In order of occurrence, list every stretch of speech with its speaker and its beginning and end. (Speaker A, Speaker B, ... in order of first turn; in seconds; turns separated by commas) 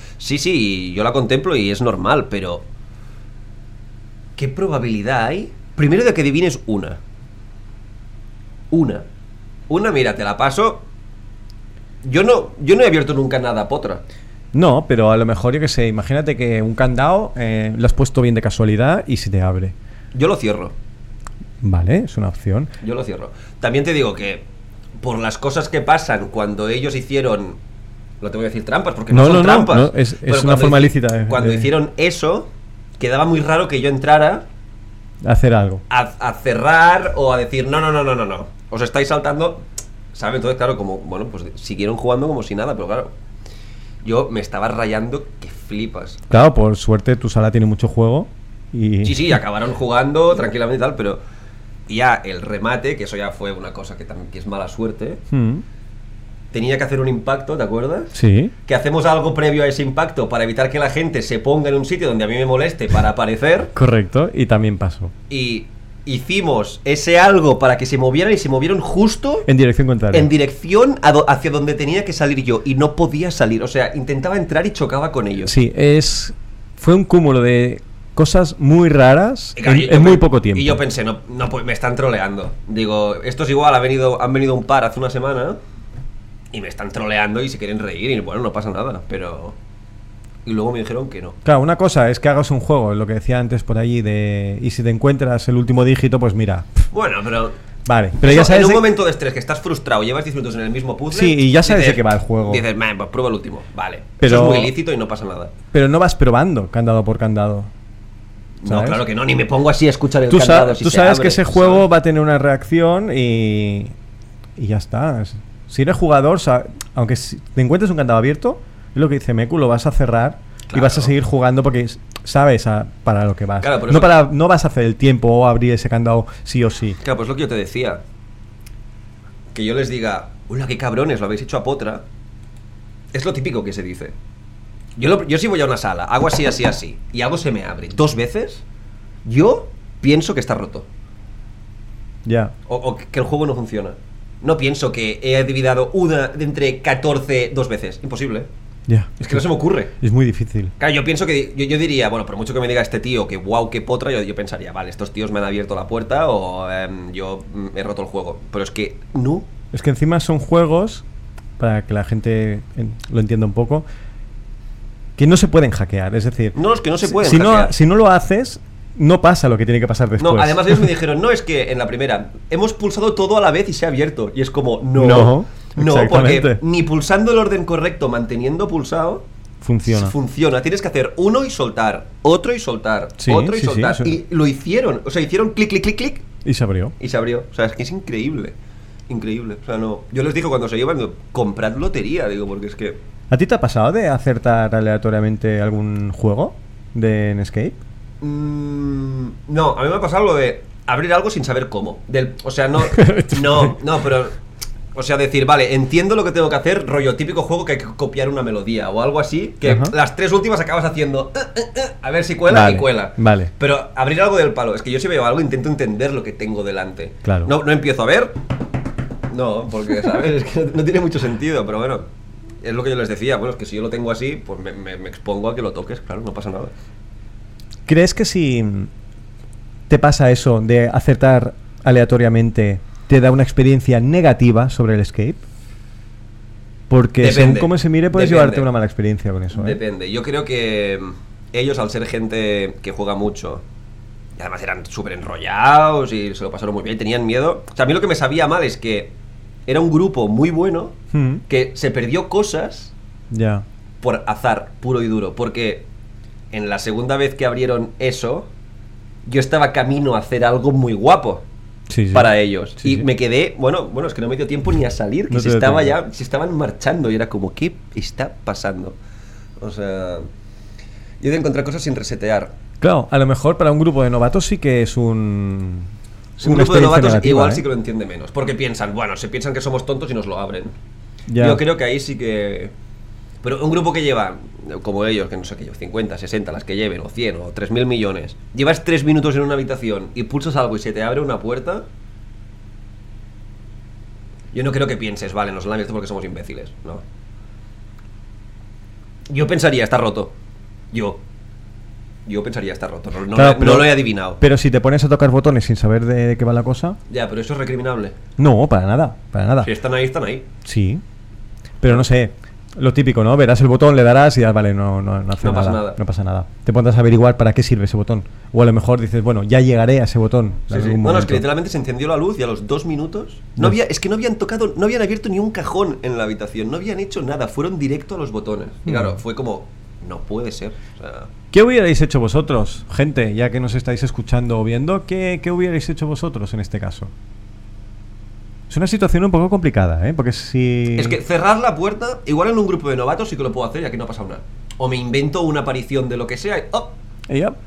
Speaker A: 0.2-2.6, Speaker A: 4.4-7.0, Speaker A: 8.7-9.0, Speaker A: 9.7-10.8, Speaker A: 12.0-14.0, Speaker B: 14.5-19.7, Speaker A: 20.1-20.7, Speaker B: 21.6-22.7, Speaker A: 22.8-24.4, Speaker A: 25.0-27.6, Speaker A: 28.2-32.5, Speaker B: 29.1-31.7, Speaker A: 33.0-34.5, Speaker B: 35.2-35.8, Speaker A: 35.9-43.1, Speaker A: 44.0-46.3, Speaker B: 46.3-49.4, Speaker A: 49.0-51.2, Speaker A: 51.9-55.2, Speaker B: 55.3-55.6, Speaker A: 56.5-63.7, Speaker B: 58.1-58.5, Speaker B: 63.7-65.1, Speaker A: 65.3-69.5, Speaker B: 69.5-70.3, Speaker A: 70.1-75.5, Speaker B: 75.5-80.8, Speaker A: 79.6-85.6, Speaker A: 86.5-89.5, Speaker A: 90.4-91.4, Speaker B: 91.4-96.9, Speaker A: 96.9-97.5, Speaker B: 97.8-98.9, Speaker A: 98.2-105.5, Speaker B: 101.1-102.6, Speaker B: 104.2-104.7, Speaker B: 105.7-107.7, Speaker A: 108.6-111.8, Speaker B: 108.7-109.0, Speaker B: 110.3-113.9, Speaker B: 114.6-127.0, Speaker A: 120.7-121.1, Speaker A: 123.6-124.2, Speaker A: 127.0-128.0, Speaker A: 129.5-132.0, Speaker A: 133.1-134.1, Speaker A: 135.0-138.6, Speaker A: 139.2-140.9, Speaker B: 142.2-142.5, Speaker A: 142.7-148.5, Speaker B: 148.9-149.4, Speaker A: 149.2-149.9, Speaker B: 150.0-150.7, Speaker A: 150.8-159.5, Speaker B: 159.7-161.0, Speaker B: 161.6-163.8, Speaker B: 165.2-170.9, Speaker A: 166.5-167.7, Speaker A: 170.2-179.2, Speaker B: 174.9-176.6, Speaker B: 179.6-180.1, Speaker A: 179.8-186.3, Speaker B: 183.2-184.2, Speaker B: 186.4-186.9, Speaker A: 187.0-188.5, Speaker A: 189.1-193.0, Speaker B: 193.3-197.8, Speaker A: 198.2-204.4, Speaker B: 202.8-203.8, Speaker A: 204.9-218.4, Speaker B: 209.6-209.9, Speaker B: 212.5-213.5, Speaker B: 217.2-217.5, Speaker A: 219.3-222.1, Speaker A: 222.6-226.7, Speaker B: 227.9-228.9, Speaker B: 229.9-235.4, Speaker B: 236.9-239.8, Speaker A: 237.2-238.7, Speaker A: 239.5-243.6, Speaker A: 244.4-249.1, Speaker A: 249.7-251.0, Speaker B: 251.1-251.4, Speaker A: 251.5-252.9, Speaker B: 253.3-253.6, Speaker A: 254.0-255.8, Speaker A: 256.5-258.5, Speaker A: 259.2-261.4, Speaker B: 261.9-263.0, Speaker A: 262.1-268.9, Speaker B: 265.3-266.0, Speaker A: 269.6-270.3, Speaker A: 271.2-272.5, Speaker B: 272.8-277.6, Speaker A: 276.4-280.8, Speaker B: 281.3-281.6, Speaker A: 281.4-282.7, Speaker A: 283.4-291.9, Speaker A: 294.5-297.0, Speaker A: 299.3-300.3, Speaker A: 300.9-301.2, Speaker A: 302.2-304.4, Speaker B: 303.3-307.0, Speaker A: 307.1-308.1, Speaker B: 308.4-309.7, Speaker A: 309.6-310.5, Speaker B: 310.6-311.0, Speaker B: 311.8-321.4, Speaker A: 315.4-316.0, Speaker A: 320.7-331.3, Speaker B: 328.9-329.2, Speaker B: 331.5-337.1, Speaker B: 338.7-341.2, Speaker A: 340.9-347.0, Speaker B: 347.3-347.6